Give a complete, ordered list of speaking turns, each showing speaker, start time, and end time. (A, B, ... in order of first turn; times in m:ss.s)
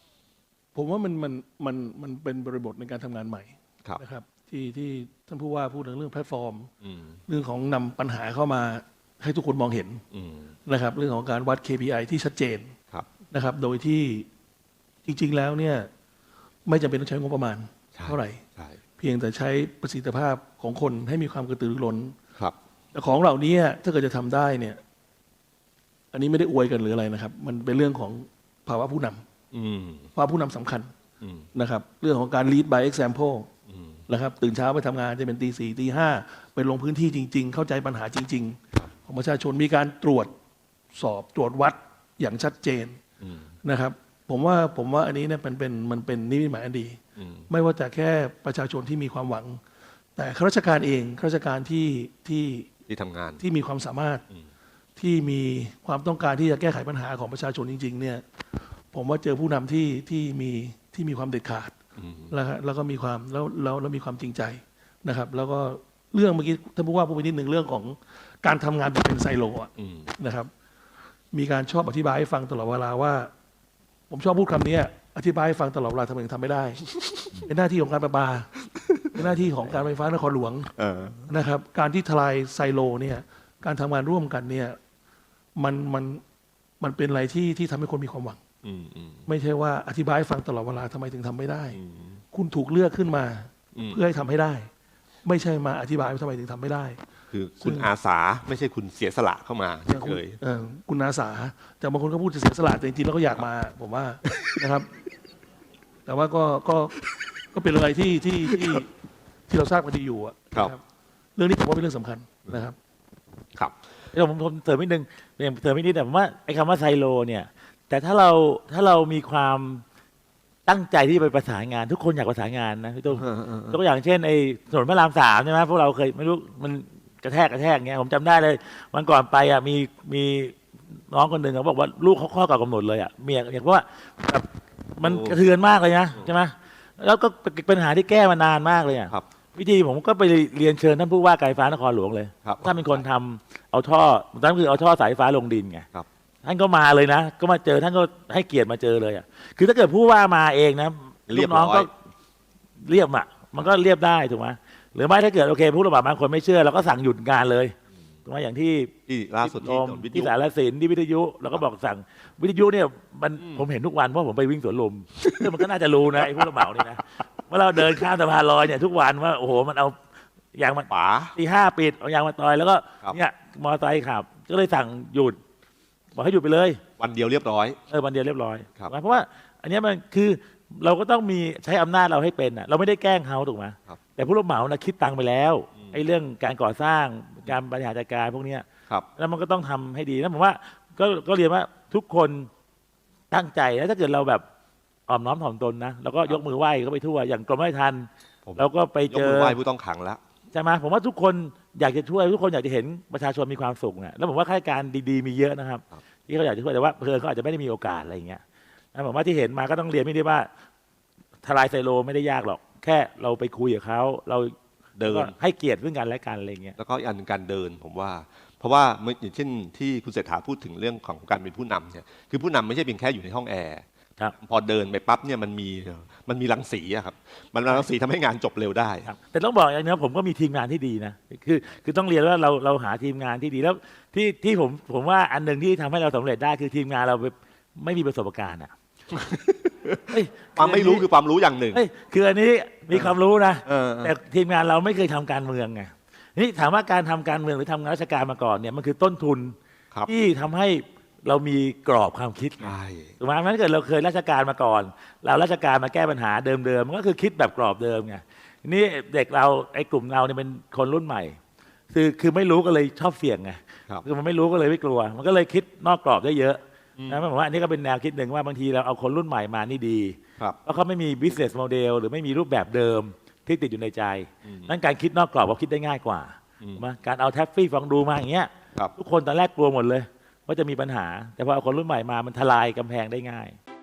0:00.7-0:06.7 A
0:06.8-0:07.2 B
0:07.3-0:10.0 A
0:10.1-0:10.5 B
0:10.6-0:12.7 A
0:13.3-0:14.3 A
0:15.0-0:15.9 A
0:16.6-0:18.4 A
0:17.9-0:18.8 B
0:19.0-0:22.2 A
0:22.9-0:24.8 A
0:26.1-0:29.2 A
0:29.5-0:30.1 B
0:30.2-0:30.9 A
0:31.2-0:31.5 B
0:31.5-0:33.5 A
0:33.7-0:34.0 B
0:34.1-0:40.3 A
0:40.9-0:43.0 A
0:43.2-0:43.5 B
0:43.6-0:49.6 A
0:47.2-0:47.5 B
0:50.2-0:52.7 A
0:52.9-0:53.4 B
0:53.4-0:54.2 A
0:55.0-0:58.2 A
0:58.9-1:01.8 A
1:02.0-1:02.3 B
1:02.3-1:10.5 A
1:09.8-1:10.1 B
1:11.3-1:13.3 A
1:14.1-1:16.8 A
1:17.4-1:18.5 A
1:19.0-1:19.8 B
1:19.1-1:20.7 A
1:20.8-1:21.3 B
1:21.3-1:24.8 A
1:25.6-1:26.2 A
1:26.8-1:28.4 A
1:28.6-1:29.2 B
1:29.2-1:31.8 A
1:31.7-1:32.2 B
1:32.3-1:34.7 A
1:35.2-1:37.0 A
1:37.3-1:40.4 B
1:37.6-1:37.9 A
1:39.9-1:44.9 A
1:46.0-1:47.0 A
1:47.5-1:48.9 A
1:49.5-1:50.8 A
1:51.4-1:52.8 A
1:54.1-1:59.8 C
2:00.6-2:25.8 C
2:03.1-2:03.8 B
2:15.0-2:15.4 B
2:22.4-2:23.0 B
2:26.4-2:31.9 C
2:31.3-2:31.9 B
2:32.8-2:37.7 C
2:38.2-2:50.0 C
2:39.1-2:40.3 B
2:45.2-2:45.5 B
2:46.2-2:46.8 B
2:50.5-2:55.4 C
2:50.9-2:51.3 B
2:56.1-2:56.8 C
2:57.0-2:57.8 B
2:57.9-3:08.6 C
3:09.2-3:12.5 C
3:13.3-3:14.4 C
3:15.1-3:19.6 C
3:18.4-3:20.2 B
3:20.5-3:28.4 C
3:28.9-3:30.5 C
3:31.4-3:34.5 C
3:35.0-3:35.3 B
3:35.0-3:36.8 C
3:36.8-3:43.8 B
3:44.4-3:49.1 B
3:49.0-3:58.7 C
3:59.1-4:01.8 B
4:00.1-4:01.1 C
4:01.7-4:09.6 C
4:02.9-4:04.1 B
4:10.1-4:21.4 C
4:12.6-4:13.1 B
4:21.9-4:43.6 C
4:34.4-4:34.7 B